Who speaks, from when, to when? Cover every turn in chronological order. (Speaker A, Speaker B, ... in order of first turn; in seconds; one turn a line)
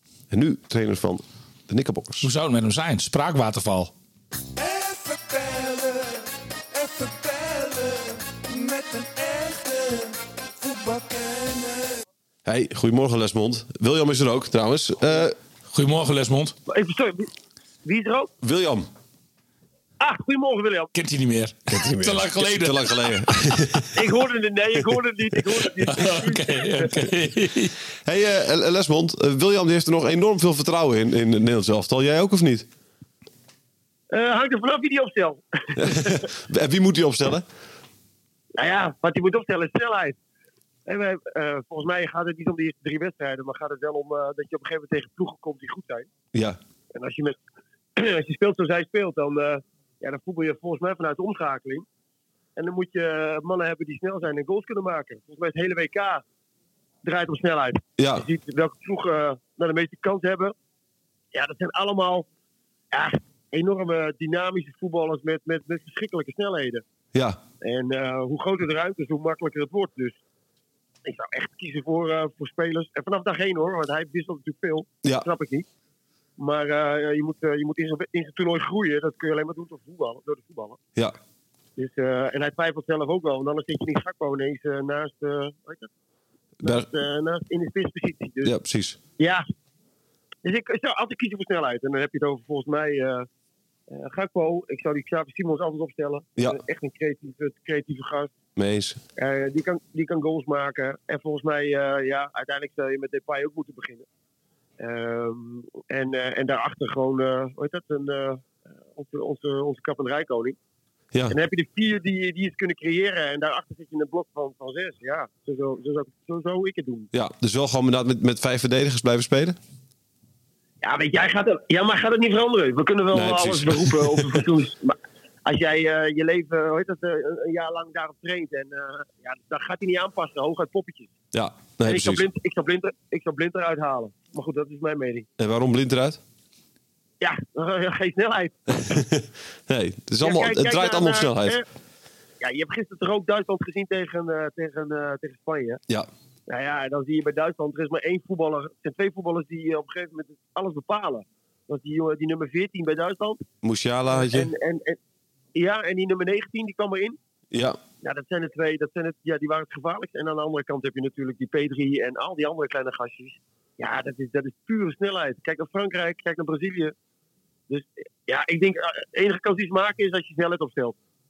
Speaker A: 0.3-2.3
Speaker B: 2.2-3.9
Speaker C: 4.6-12.0
Speaker A: 12.4-15.4
Speaker B: 15.7-16.6
Speaker D: 16.7-17.3
Speaker D: 17.9-18.3
Speaker A: 18.4-18.9
Speaker D: 20.0-20.9
Speaker B: 20.9-23.9
Speaker A: 21.7-24.1
Speaker D: 23.9-27.0
Speaker B: 25.8-27.8
Speaker A: 28.1-32.7
Speaker D: 34.1-36.2
Speaker A: 35.8-37.5
Speaker D: 38.6-40.2
Speaker D: 40.9-46.1
Speaker A: 46.3-46.6
Speaker D: 46.9-47.4
Speaker D: 48.0-51.9
Speaker D: 52.6-56.2
Speaker D: 57.0-60.5
Speaker A: 58.0-58.3
Speaker D: 61.3-62.3
Speaker D: 62.9-66.8
Speaker A: 67.1-67.4
Speaker D: 67.6-70.2
Speaker D: 71.0-75.7
Speaker D: 76.4-80.8
Speaker D: 81.8-85.9
Speaker A: 86.6-86.9
Speaker D: 86.6-88.5
Speaker A: 88.4-89.0
Speaker D: 89.2-89.5
Speaker D: 90.4-93.3
Speaker D: 93.9-98.3
Speaker A: 98.6-99.0
Speaker D: 99.2-104.1
Speaker D: 104.8-110.6
Speaker D: 111.3-117.1
Speaker A: 117.1-119.6
Speaker D: 120.8-131.1
Speaker A: 123.1-124.5
Speaker A: 131.3-132.3
Speaker D: 131.8-135.3
Speaker A: 135.4-136.2
Speaker D: 137.2-139.0
Speaker A: 138.8-141.6
Speaker D: 140.2-141.7
Speaker D: 142.4-145.8
Speaker D: 146.5-153.4
Speaker A: 153.6-154.5
Speaker D: 154.1-155.0
Speaker D: 155.6-157.2
Speaker A: 157.5-157.8
Speaker D: 158.0-166.9
Speaker D: 167.7-171.0